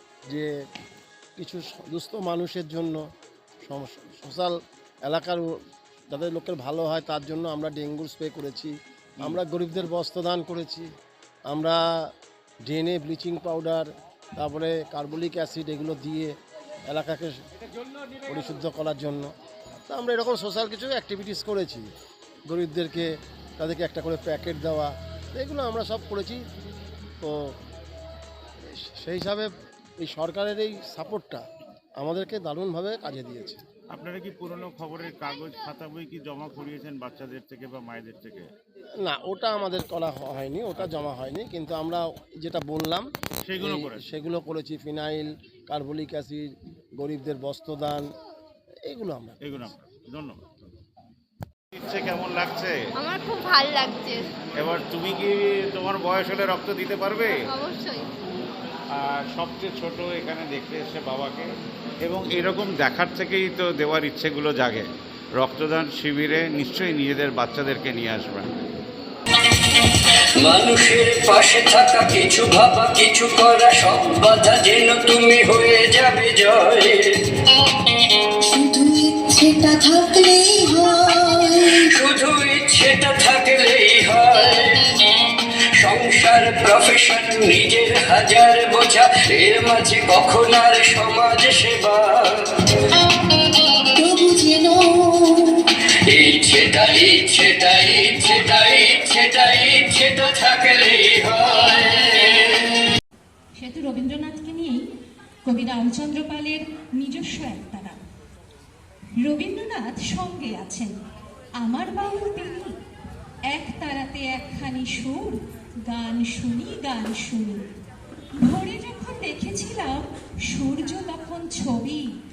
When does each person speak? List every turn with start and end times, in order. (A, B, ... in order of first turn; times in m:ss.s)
0:01.4-0:03.0 A
0:03.6-0:04.5 A
0:05.0-0:05.5 A
0:06.1-0:10.9 A
0:11.5-0:11.8 A
0:12.6-0:13.8 A
0:14.4-0:16.3 A
0:16.9-0:17.3 A
0:18.2-0:19.3 A
0:19.9-0:21.8 A
0:22.5-0:26.4 A
0:28.9-0:29.5 A
0:30.0-0:31.4 A
0:32.0-0:33.6 A
0:33.9-0:38.5 B
0:39.0-0:43.1 A
0:43.5-0:44.0 B
0:43.6-0:46.5 A
0:47.0-0:48.0 A
0:48.8-0:49.6 A
0:49.4-0:50.5 B
0:51.7-0:52.8 B
0:53.0-0:54.3 C
0:54.6-0:57.5 B
0:57.4-0:58.1 C
0:58.9-1:01.5 B
1:02.0-1:04.9 B
1:05.4-1:08.5 B
1:10.4-1:17.2 D
1:18.4-1:21.7 E
1:21.4-1:24.9 D
1:25.8-1:32.5 D
1:33.9-1:35.6 E
1:36.1-1:42.6 D
1:43.6-1:44.8 F
1:45.4-1:48.0 F
1:49.2-1:50.9 F
1:51.6-1:52.8 F
1:53.5-1:57.6 F
1:58.4-2:02.0 F